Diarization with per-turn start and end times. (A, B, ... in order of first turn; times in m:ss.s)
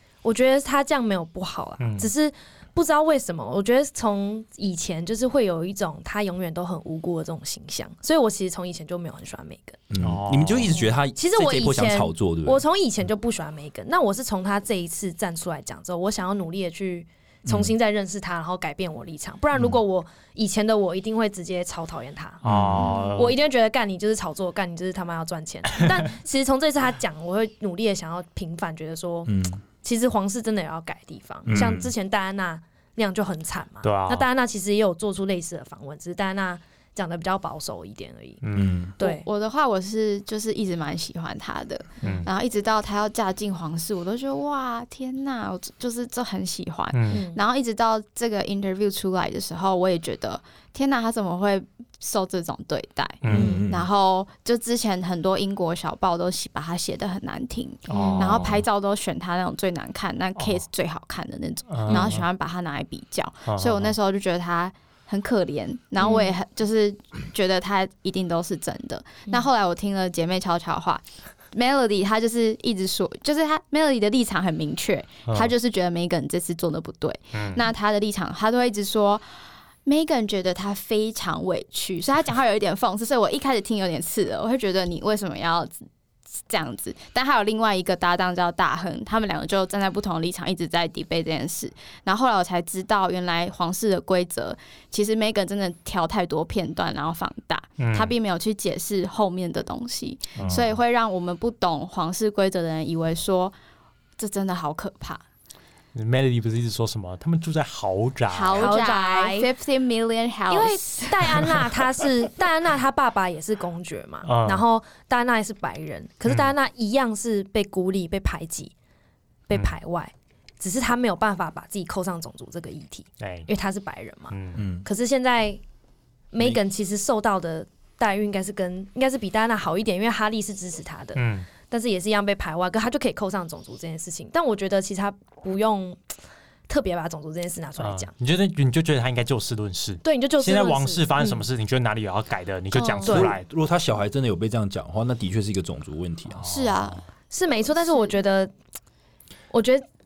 0:00.2-0:09.8 A
0:01.8-0:02.1 B
0:09.9-0:12.6 C
0:10.0-0:10.8 B
0:10.9-0:38.5 A
0:17.5-0:17.7 C
0:22.4-0:23.0 C
0:22.4-0:23.3 B
0:29.3-0:29.6 C
0:31.5-0:31.9 C
0:33.8-0:34.3 B
0:38.4-0:38.8 B
0:38.5-0:39.0 C
0:39.0-0:39.3 A
0:39.0-1:19.2 D
0:42.0-0:42.3 B
0:46.9-0:47.2 B
0:47.1-0:47.4 A
0:53.2-0:53.6 B
0:53.2-0:53.9 C
0:53.3-0:53.7 A
0:57.9-0:58.6 B
0:57.9-0:58.5 A
1:00.4-1:00.6 B
1:01.7-1:02.3 B
1:01.9-1:02.1 A
1:03.5-1:04.0 B
1:15.3-1:15.5 B
1:17.3-1:17.6 B
1:19.9-1:25.9 D
1:26.5-1:43.6 D
1:37.8-1:38.1 B
1:40.4-1:40.7 B
1:44.2-1:45.2 D
1:45.9-1:48.7 B
1:48.3-1:51.8 D
1:48.5-1:49.5 A
1:50.5-1:58.7 A
1:54.2-1:54.6 B
1:56.3-1:56.5 B
1:59.5-2:05.6 A
1:59.5-1:59.8 B
2:03.2-2:03.5 B
2:04.3-2:04.6 B
2:04.6-2:04.9 C
2:06.3-2:16.0 A
2:11.2-2:11.5 B
2:16.7-2:18.1 A
2:17.8-2:23.4 B
2:20.0-2:21.4 A
2:22.7-2:23.1 D
2:23.0-2:26.4 C
2:23.0-2:23.4 A
2:26.3-2:27.0 B
2:26.4-2:27.0 D
2:27.3-2:28.5 A
2:29.5-2:29.8 A